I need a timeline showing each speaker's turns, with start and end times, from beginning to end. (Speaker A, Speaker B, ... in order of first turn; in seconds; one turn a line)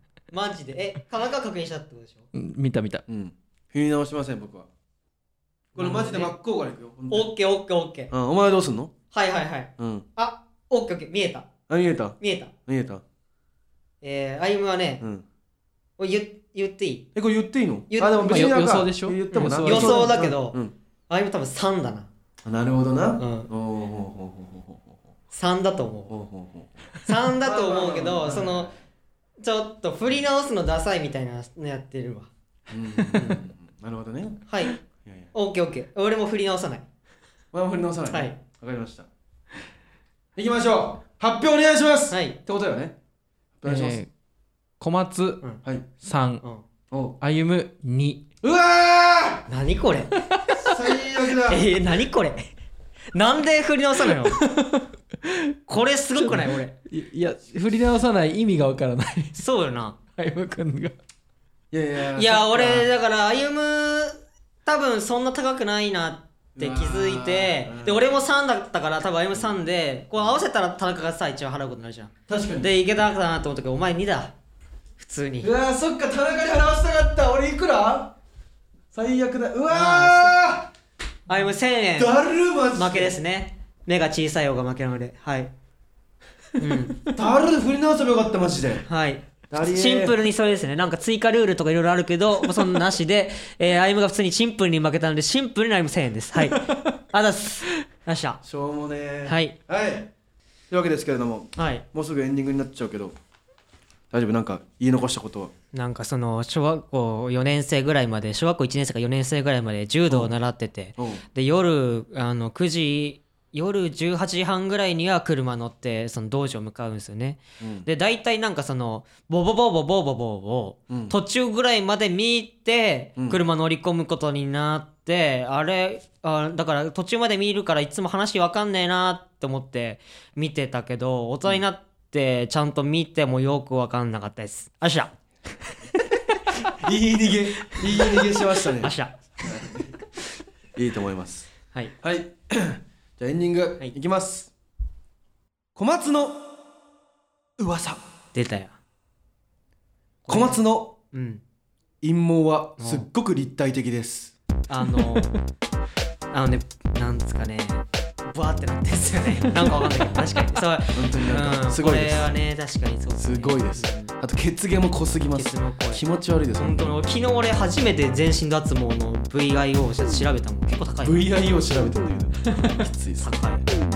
Speaker A: 0.3-2.3
Speaker B: 2.3-3.0
Speaker C: 3.1-4.7
Speaker C: 5.7-7.3
Speaker A: 5.8-6.3
Speaker A: 7.1-8.1
Speaker C: 8.1-8.9
Speaker A: 9.1-11.5
Speaker C: 9.8-10.1
Speaker C: 11.7-13.0
Speaker A: 12.2-12.5
Speaker A: 14.0-15.0
Speaker A: 16.0-17.1
Speaker C: 17.1-20.8
Speaker A: 17.9-18.5
Speaker B: 18.3-20.1
Speaker A: 19.3-22.1
Speaker C: 22.4-24.9
Speaker A: 23.2-23.5
Speaker A: 25.3-26.2
Speaker C: 26.1-26.7
Speaker A: 27.1-28.7
Speaker C: 27.4-28.7
Speaker A: 29.4-32.3
Speaker C: 32.7-34.5
Speaker A: 34.5-34.8
Speaker C: 35.0-35.3
Speaker A: 35.3-36.9
Speaker C: 37.5-39.1
Speaker A: 38.1-38.4
Speaker C: 40.4-43.0
Speaker A: 42.1-42.4
Speaker C: 43.6-44.0
Speaker B: 43.7-44.1
Speaker B: 44.8-45.4
Speaker B: 46.0-46.4
Speaker C: 46.9-47.2
Speaker B: 47.2-48.2
Speaker C: 48.4-49.5
Speaker A: 49.5-50.2
Speaker B: 50.3-50.7
Speaker C: 50.6-51.7
Speaker A: 51.5-52.5
Speaker A: 53.1-54.4
Speaker B: 54.2-55.5
Speaker A: 55.7-56.8
Speaker B: 56.2-59.4
Speaker A: 59.4-60.0
Speaker B: 60.2-61.0
Speaker C: 61.7-62.9
Speaker A: 62.2-74.3
Speaker C: 66.6-68.2
Speaker C: 72.3-72.7
Speaker A: 75.0-75.5
Speaker C: 75.4-78.2
Speaker C: 78.9-80.7
Speaker A: 79.7-80.3
Speaker A: 81.3-82.1
Speaker C: 82.0-83.2
Speaker A: 82.7-85.5
Speaker A: 86.6-87.0
Speaker C: 87.1-88.9
Speaker A: 88.9-98.4
Speaker C: 89.5-90.2
Speaker B: 96.4-96.9
Speaker C: 98.4-100.1
Speaker A: 99.2-99.6
Speaker C: 100.7-103.2
Speaker A: 101.6-101.8
Speaker C: 104.1-105.5
Speaker A: 105.7-135.1
Speaker C: 111.0-111.2
Speaker C: 117.6-117.9
Speaker C: 120.9-121.2
Speaker C: 136.8-140.0
Speaker A: 137.9-139.2
Speaker C: 140.8-141.5
Speaker C: 142.0-144.5
Speaker C: 145.8-146.5
Speaker C: 147.6-148.0
Speaker A: 148.3-148.8
Speaker A: 150.2-150.6
Speaker C: 150.3-151.0
Speaker A: 151.1-151.4
Speaker C: 152.0-154.4
Speaker A: 152.8-153.1
Speaker A: 154.7-155.3
Speaker A: 156.3-164.1
Speaker C: 160.9-162.4
Speaker C: 163.2-166.9
Speaker A: 165.3-166.0
Speaker A: 166.6-171.2
Speaker C: 171.0-173.5
Speaker A: 173.2-173.7